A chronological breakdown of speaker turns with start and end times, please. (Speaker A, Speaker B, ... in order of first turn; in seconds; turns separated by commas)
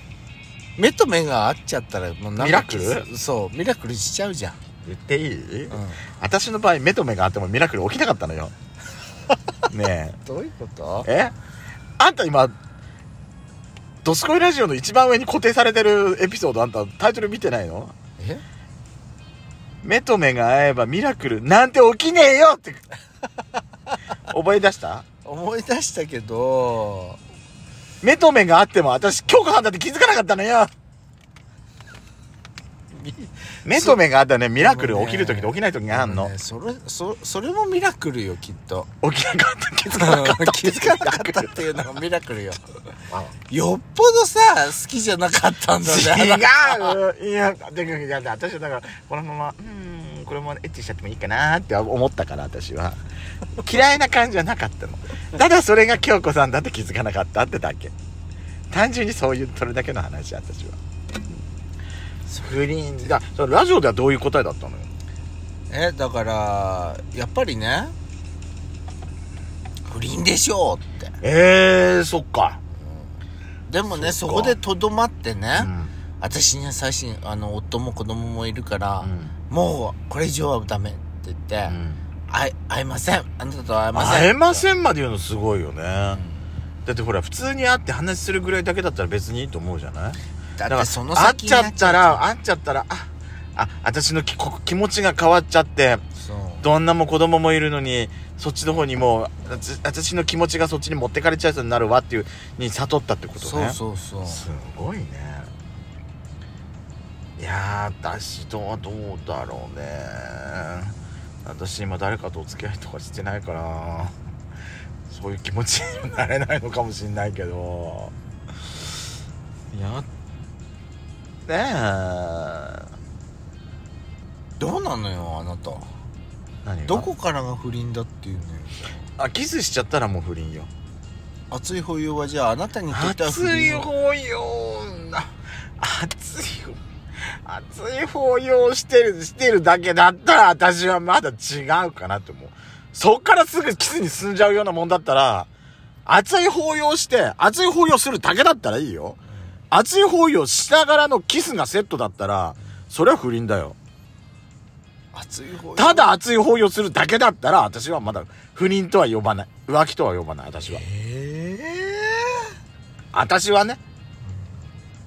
Speaker A: 0.8-4.6, Speaker B: 2.4-3.1, Speaker B: 4.8-8.5, Speaker A: 5.7-6.0, Speaker B: 9.7-10.2, Speaker A: 10.3-11.1, Speaker B: 11.1-11.3, Speaker B: 12.0-12.5, Speaker B: 14.0-17.9, Speaker A: 18.2-18.4, Speaker B: 19.8-22.8, Speaker B: 24.3-25.1, Speaker A: 25.2-27.2, Speaker B: 28.0-30.7, Speaker A: 33.0-34.0, Speaker B: 33.6-36.3, Speaker A: 34.6-38.9, Speaker B: 39.0-41.9, Speaker A: 39.9-42.6, Speaker A: 43.5-47.0, Speaker B: 45.8-53.0, Speaker B: 53.6-57.9, Speaker B: 58.7-60.8, Speaker B: 62.4-64.9, Speaker A: 65.7-67.9, Speaker A: 69.9-71.2, Speaker B: 71.2-72.6, Speaker A: 72.8-73.1, Speaker A: 73.7-84.7, Speaker B: 73.9-74.6, Speaker B: 75.5-75.9, Speaker B: 79.0-79.3, Speaker B: 81.7-82.0, Speaker B: 83.9-86.2, Speaker A: 86.1-86.5, Speaker B: 86.8-96.0, Speaker A: 90.6-92.2, Speaker A: 96.2-96.7, Speaker B: 96.6-105.5, Speaker A: 103.4-104.5, Speaker B: 107.4-114.2, Speaker B: 115.1-118.1, Speaker B: 119.7-120.1, Speaker B: 121.5-122.9, Speaker A: 124.6-125.9, Speaker B: 126.6-127.1, Speaker A: 126.9-129.0, Speaker B: 129.2-130.7, Speaker A: 131.5-133.9, Speaker B: 132.9-136.8, Speaker B: 137.4-145.5, Speaker B: 146.1-149.2, Speaker B: 149.7-153.8, Speaker A: 155.1-156.1, Speaker B: 155.8-160.8, Speaker A: 160.6-162.5, Speaker B: 163.1-163.8, Speaker A: 164.3-164.6